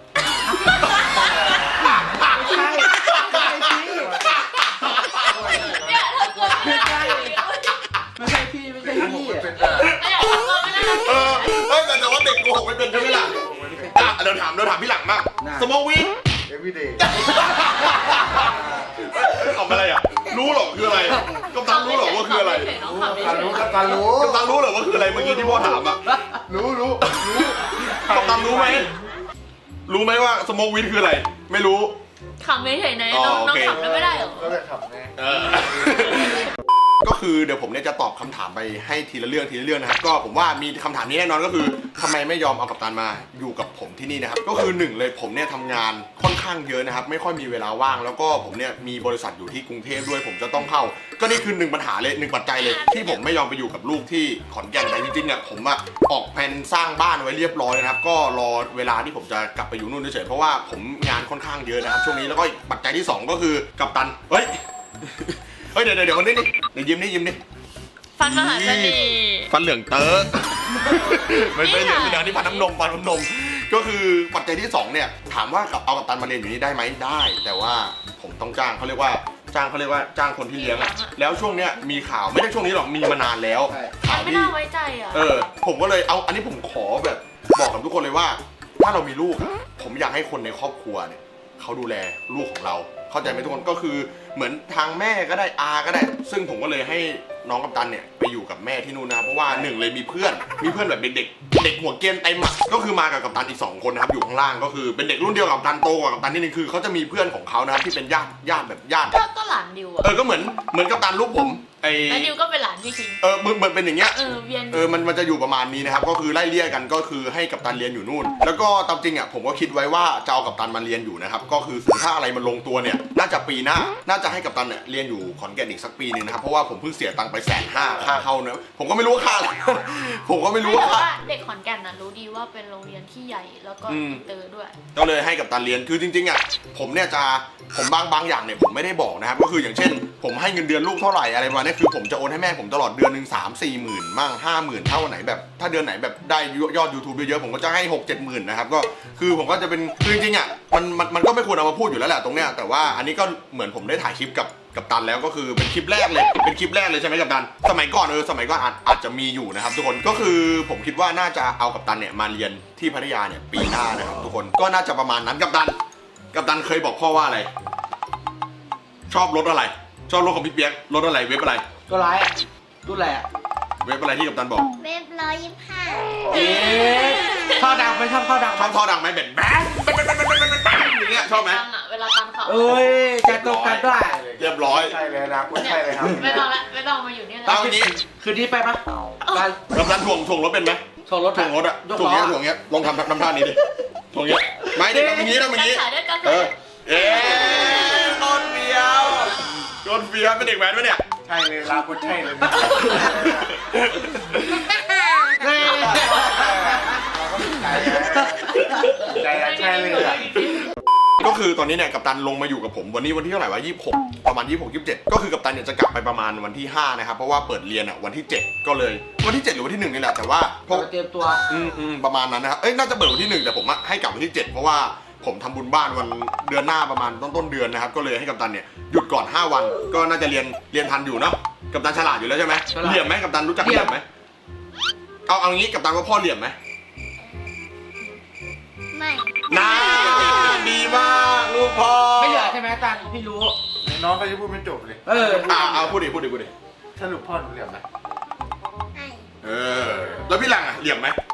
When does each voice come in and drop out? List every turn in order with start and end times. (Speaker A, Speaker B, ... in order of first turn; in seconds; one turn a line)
Speaker A: 0.8-5.8
Speaker B: 2.2-4.3
Speaker C: 4.0-4.3
Speaker C: 5.3-6.0
Speaker D: 5.4-7.8
Speaker B: 6.4-7.3
Speaker A: 6.6-7.4
Speaker B: 8.2-9.5
Speaker C: 8.8-10.0
Speaker A: 9.7-13.4
Speaker D: 9.8-11.8
Speaker C: 13.0-14.1
Speaker B: 13.7-14.1
Speaker A: 13.9-16.1
Speaker B: 15.4-15.7
Speaker C: 16.5-17.1
Speaker A: 17.0-22.7
Speaker D: 21.5-24.0
Speaker C: 22.8-25.7
Speaker A: 24.1-26.0
Speaker B: 26.1-26.4
Speaker C: 26.5-28.9
Speaker A: 27.0-28.9
Speaker A: 29.9-32.0
Speaker D: 32.4-34.6
Speaker A: 33.1-33.8
Speaker C: 33.7-35.2
Speaker A: 35.2-36.5
Speaker A: 37.0-67.4
Speaker D: 52.6-53.2
Speaker D: 68.2-69.5
Speaker A: 68.2-84.6
Speaker D: 70.8-72.7
Speaker D: 80.5-81.2
Speaker B: 83.7-84.0
Speaker D: 84.1-85.3
Speaker A: 85.1-109.2
Speaker D: 109.1-110.2
Speaker A: 110.0-112.3
Speaker D: 112.1-113.2
Speaker A: 113.2-131.1
Speaker D: 114.1-114.9
Speaker D: 130.6-134.8
Speaker A: 133.9-134.2
Speaker A: 134.9-165.8
Speaker A: 166.3-167.5
Speaker A: 169.1-171.7
Speaker B: 171.9-172.3
Speaker B: 172.8-173.3
Speaker A: 173.8-174.7
Speaker E: 174.8-176.4
Speaker B: 176.3-178.8
Speaker A: 178.5-181.6
Speaker D: 181.0-182.9
Speaker B: 182.4-184.2
Speaker A: 182.7-185.0
Speaker C: 184.1-186.5
Speaker D: 185.6-187.7
Speaker A: 187.4-188.0
Speaker B: 188.1-188.8
Speaker D: 189.2-189.5
Speaker B: 189.3-189.8
Speaker A: 189.7-193.6
Speaker B: 191.1-192.4
Speaker A: 194.1-201.0
Speaker B: 194.9-195.4
Speaker D: 195.0-198.2
Speaker C: 201.2-203.4
Speaker A: 202.9-204.6
Speaker E: 204.6-206.0
Speaker B: 205.4-206.7
Speaker D: 205.8-206.6
Speaker C: 205.9-208.5
Speaker A: 208.6-209.2
Speaker D: 209.0-210.7
Speaker C: 209.1-210.4
Speaker A: 209.9-210.6
Speaker A: 211.2-220.9
Speaker B: 220.7-221.4
Speaker A: 221.5-234.1
Speaker B: 232.7-233.1
Speaker B: 233.6-234.0
Speaker A: 235.3-236.6
Speaker E: 238.9-240.8
Speaker A: 239.5-242.6
Speaker B: 242.2-243.6
Speaker C: 243.8-245.9
Speaker B: 245.1-245.5
Speaker A: 245.4-246.5
Speaker C: 246.9-247.8
Speaker E: 248.9-249.3
Speaker A: 249.4-251.2